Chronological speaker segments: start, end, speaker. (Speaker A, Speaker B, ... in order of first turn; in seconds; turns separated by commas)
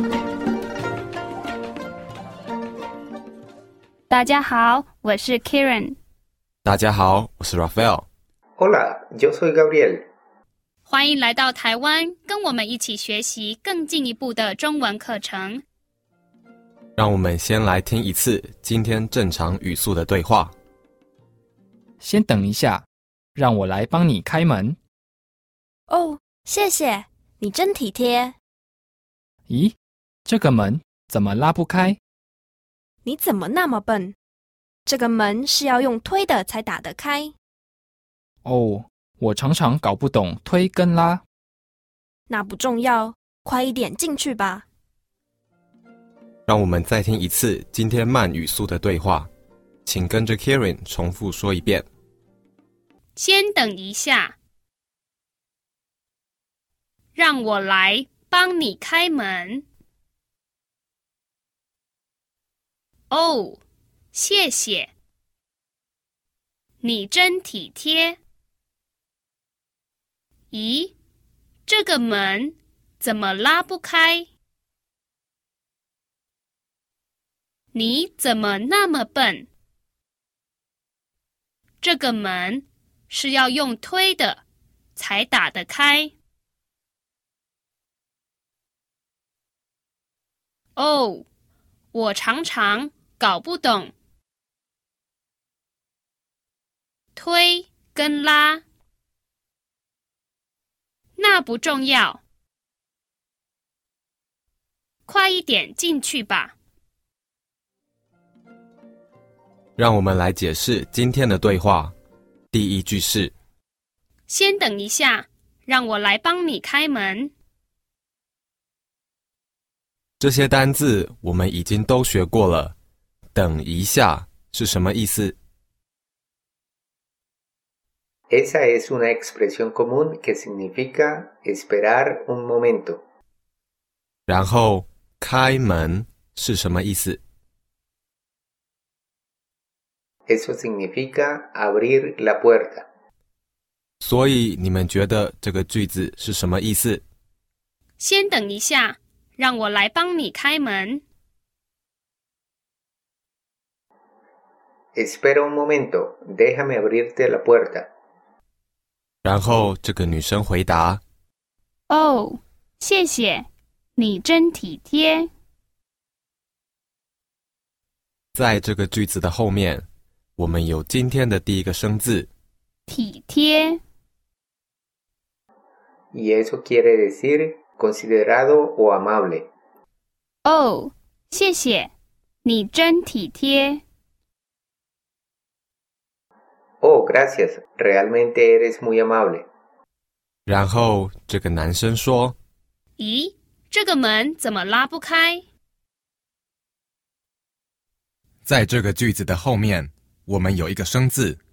Speaker A: 4.1-6.0, Speaker B: 6.6-8.1, Speaker C: 8.6-10.0, Speaker A: 10.8-15.6, Speaker B: 17.0-20.5, Speaker D: 22.0-24.8, Speaker E: 25.9-28.3, Speaker D: 29.5-29.7, Speaker D: 30.2-32.0, Speaker E: 33.0-34.1, Speaker E: 34.9-37.3, Speaker D: 38.4-41.2, Speaker E: 42.3-44.6, Speaker B: 46.5-49.3, Speaker B: 49.9-51.9, Speaker A: 53.1-54.4, Speaker A: 57.1-59.6, Speaker A: 63.1-63.6, Speaker A: 64.1-64.9, Speaker A: 66.8-68.2, Speaker A: 70.5-70.9, Speaker A: 71.7-74.3, Speaker A: 77.7-79.5, Speaker A: 81.8-84.4, Speaker A: 84.9-86.1, Speaker A: 90.8-91.2, Speaker A: 91.9-93.9, Speaker A: 97.1-98.6, Speaker A: 101.2-102.2, Speaker A: 105.0-106.5, Speaker B: 109.8-111.9, Speaker B: 112.5-113.3, Speaker A: 114.3-117.3, Speaker B: 120.2-122.7, Speaker B: 123.3-125.3, Speaker C: 128.3-133.0, Speaker B: 134.3-137.2, Speaker C: 140.3-142.8, Speaker B: 144.0-147.0, Speaker A: 148.0-151.0, Speaker C: 154.9-157.9, Speaker B: 159.2-161.0, Speaker A: 161.9-165.3, Speaker B: 168.3-169.8, Speaker B: 170.4-172.3, Speaker A: 172.9-173.8, Speaker C: 176.1-179.5, Speaker A: 180.4-181.9, Speaker A: 182.4-183.8, Speaker C: 186.8-189.4, Speaker B: 190.5-192.3, Speaker A: 193.0-195.4, Speaker B: 198.4-201.4